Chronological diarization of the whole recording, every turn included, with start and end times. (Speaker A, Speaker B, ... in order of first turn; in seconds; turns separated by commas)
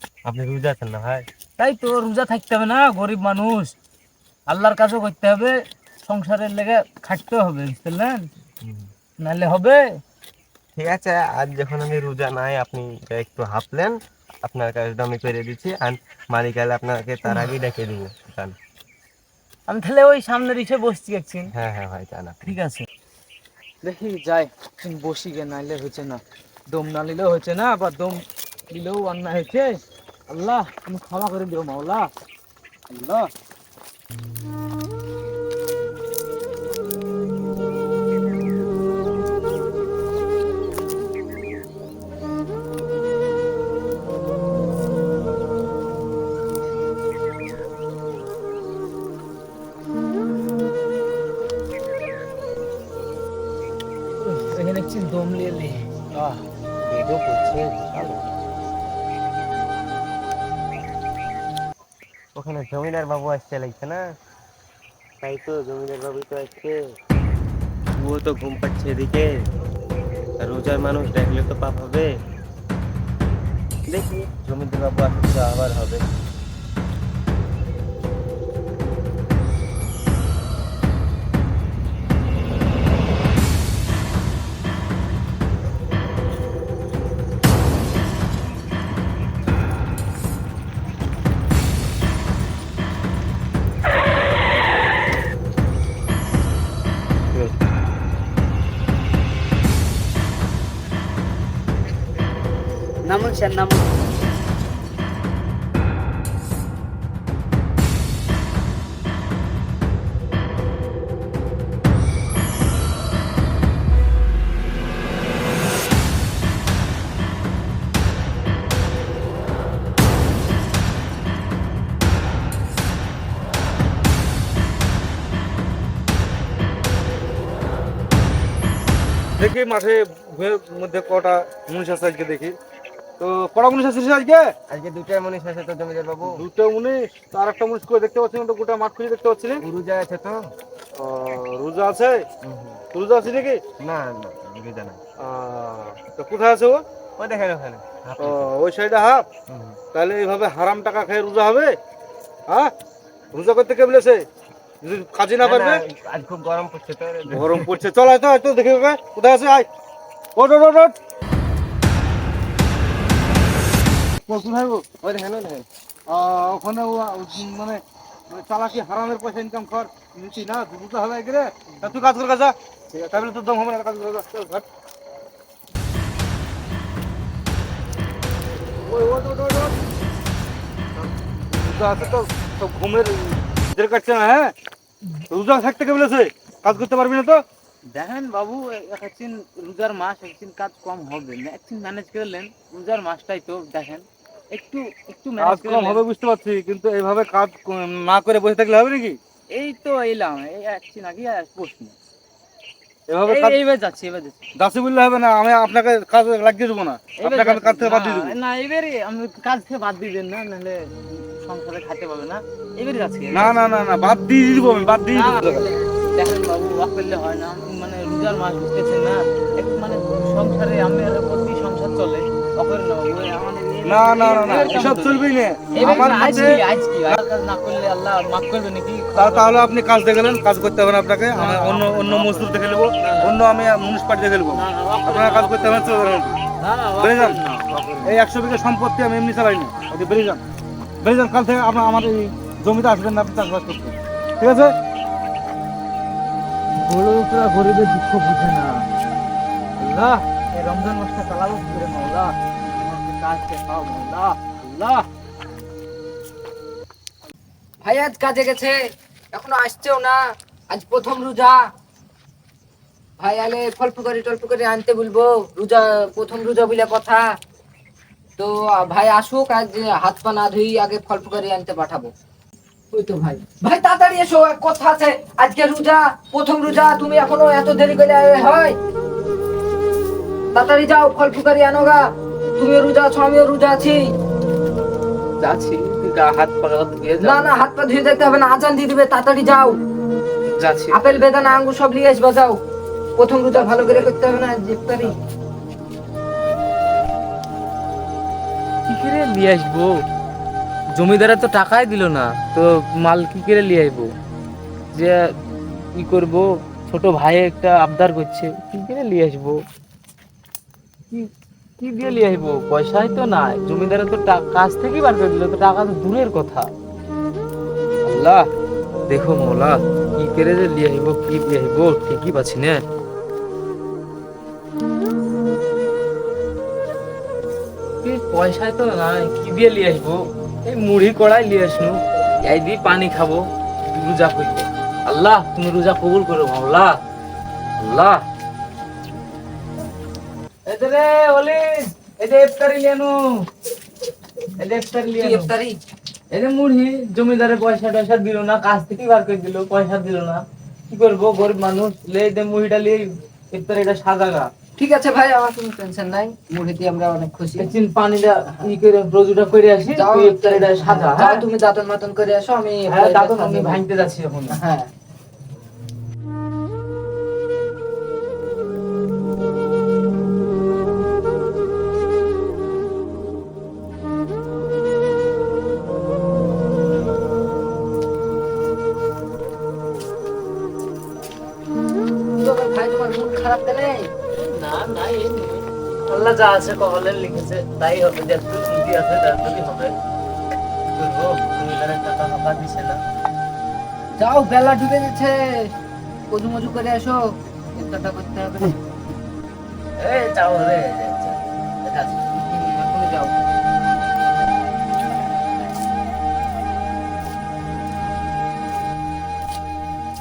Speaker A: 0.2-1.3, Speaker B: 1.6-3.8, Speaker B: 4.5-8.3, Speaker A: 8.6-8.9, Speaker B: 9.2-9.8, Speaker A: 10.8-18.6, Speaker B: 19.7-21.5, Speaker A: 21.5-22.5, Speaker B: 22.5-22.9, Speaker B: 23.8-29.8, Speaker B: 30.3-32.1, Speaker B: 32.9-33.3, Speaker B: 54.2-58.3, Speaker A: 62.4-64.1, Speaker A: 65.2-66.8, Speaker A: 68.0-69.5, Speaker A: 70.4-72.1, Speaker A: 73.9-76.0, Speaker B: 103.1-103.9, Speaker C: 129.4-132.6, Speaker C: 133.2-134.5, Speaker A: 134.7-136.4, Speaker C: 136.2-139.6, Speaker A: 139.6-140.5, Speaker C: 140.9-142.2, Speaker A: 142.4-142.8, Speaker C: 142.9-143.6, Speaker A: 143.8-145.0, Speaker C: 145.2-146.8, Speaker A: 147.2-148.5, Speaker C: 148.2-149.2, Speaker A: 149.5-149.8, Speaker C: 149.9-151.8, Speaker C: 153.3-154.2, Speaker C: 154.8-155.8, Speaker A: 155.4-157.8, Speaker C: 157.3-159.7, Speaker C: 160.4-160.9, Speaker C: 164.3-164.9, Speaker A: 165.0-165.7, Speaker C: 166.1-174.7, Speaker A: 171.8-172.1, Speaker A: 172.9-173.3, Speaker C: 178.9-179.8, Speaker C: 181.5-184.5, Speaker C: 185.3-187.4, Speaker B: 187.9-196.0, Speaker C: 195.4-199.2, Speaker B: 199.5-201.9, Speaker C: 203.1-203.6, Speaker B: 203.3-204.4, Speaker C: 204.6-208.4, Speaker B: 207.2-210.8, Speaker B: 211.3-213.6, Speaker C: 213.3-215.7, Speaker B: 215.1-229.8, Speaker C: 223.8-227.2, Speaker C: 229.2-236.4, Speaker B: 231.3-233.3, Speaker B: 234.5-238.2, Speaker C: 237.0-237.4, Speaker C: 238.0-240.4, Speaker C: 241.0-244.7, Speaker B: 246.8-248.8, Speaker B: 249.8-255.1, Speaker D: 257.8-258.8, Speaker D: 259.3-260.2, Speaker D: 260.7-261.6, Speaker D: 263.2-267.2, Speaker D: 268.4-272.1, Speaker D: 272.9-278.8, Speaker D: 280.5-282.0, Speaker D: 282.6-284.0, Speaker B: 285.4-287.5, Speaker D: 287.2-289.8, Speaker B: 290.6-291.0, Speaker D: 290.9-292.6, Speaker D: 293.2-295.1, Speaker B: 293.5-294.2, Speaker B: 298.9-300.0, Speaker B: 300.9-304.1, Speaker B: 305.9-309.6, Speaker B: 311.8-316.7, Speaker B: 318.1-318.5, Speaker B: 319.1-322.8, Speaker B: 328.0-337.0, Speaker B: 337.8-338.2, Speaker B: 340.7-343.5, Speaker B: 344.6-345.5, Speaker D: 345.1-345.8, Speaker B: 346.3-354.5, Speaker D: 354.8-357.7, Speaker B: 357.6-361.5, Speaker D: 360.0-363.9, Speaker B: 362.9-364.6, Speaker D: 364.5-364.9, Speaker D: 382.4-384.1, Speaker B: 384.4-389.9, Speaker B: 390.9-393.0, Speaker D: 394.2-395.4, Speaker D: 396.3-397.2, Speaker D: 397.8-398.8, Speaker B: 400.0-402.2, Speaker D: 402.4-403.4